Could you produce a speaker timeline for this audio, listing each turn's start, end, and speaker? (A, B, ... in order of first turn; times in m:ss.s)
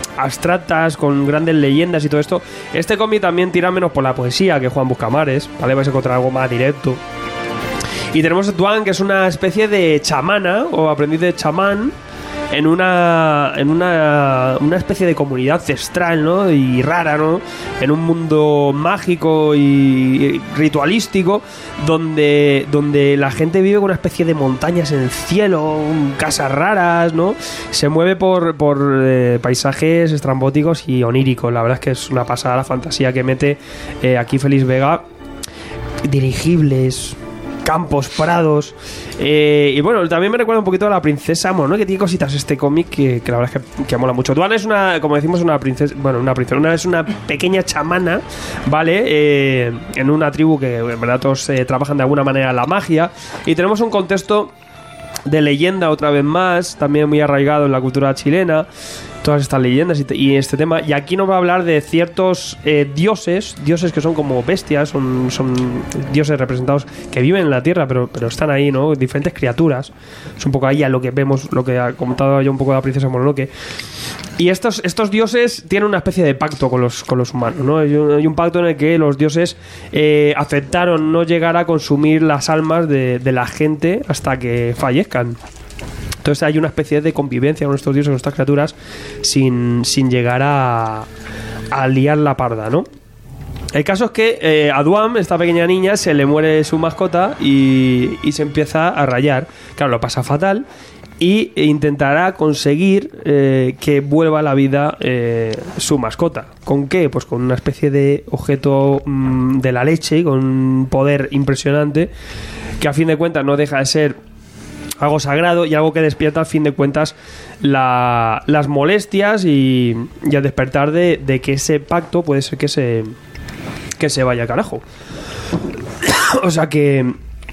0:00.2-0:07.0 A
0:08.1-0:11.9 A
0:12.5-0:35.0 A
0:36.0-0:54.5 A
0:55.2-0:58.7 A
0:59.2-1:13.5 A
1:14.4-1:25.4 A
1:26.2-1:31.1 A
1:31.7-1:32.9 A
1:33.7-1:40.6 A
1:41.2-1:52.1 A
1:52.8-1:54.2 A
1:55.0-2:03.1 A
2:04.0-2:04.8 A
2:06.0-2:07.2 A